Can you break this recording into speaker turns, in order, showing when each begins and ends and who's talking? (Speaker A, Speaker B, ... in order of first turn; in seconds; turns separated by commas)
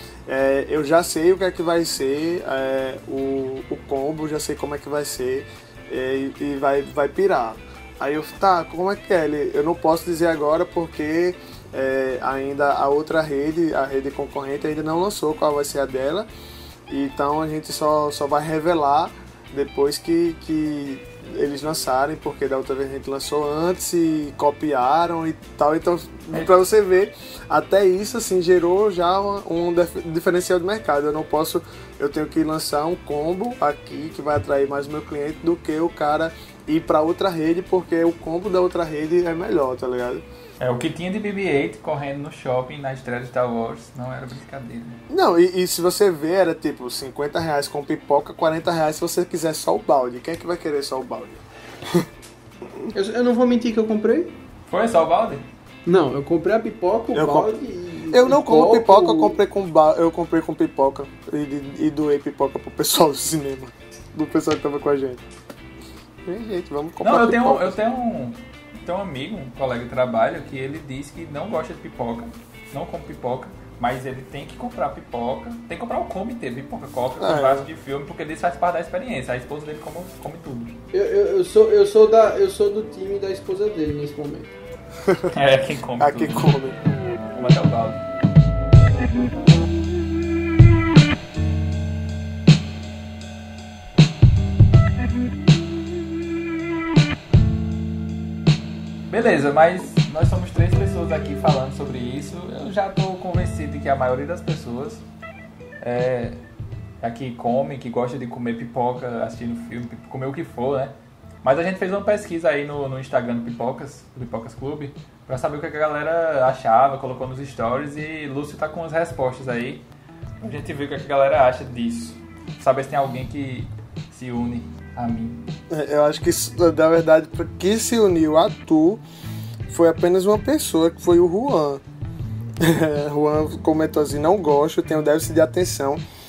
Speaker A: 0.2-16.3, Speaker A: 16.9-40.2, Speaker B: 40.6-45.0, Speaker A: 45.1-52.0, Speaker C: 52.9-54.3, Speaker B: 54.7-55.4, Speaker C: 55.9-59.4, Speaker A: 57.1-57.5, Speaker A: 58.1-65.2, Speaker A: 66.2-67.8, Speaker B: 67.0-80.8, Speaker A: 77.2-77.7, Speaker C: 80.9-84.5, Speaker A: 85.0-85.3, Speaker B: 85.3-86.5, Speaker A: 86.0-86.8, Speaker B: 87.3-88.0, Speaker B: 99.1-105.0, Speaker B: 105.8-106.4, Speaker B: 107.0-119.8, Speaker B: 120.4-125.5, Speaker A: 125.7-129.0, Speaker A: 129.7-131.8, Speaker A: 132.6-136.0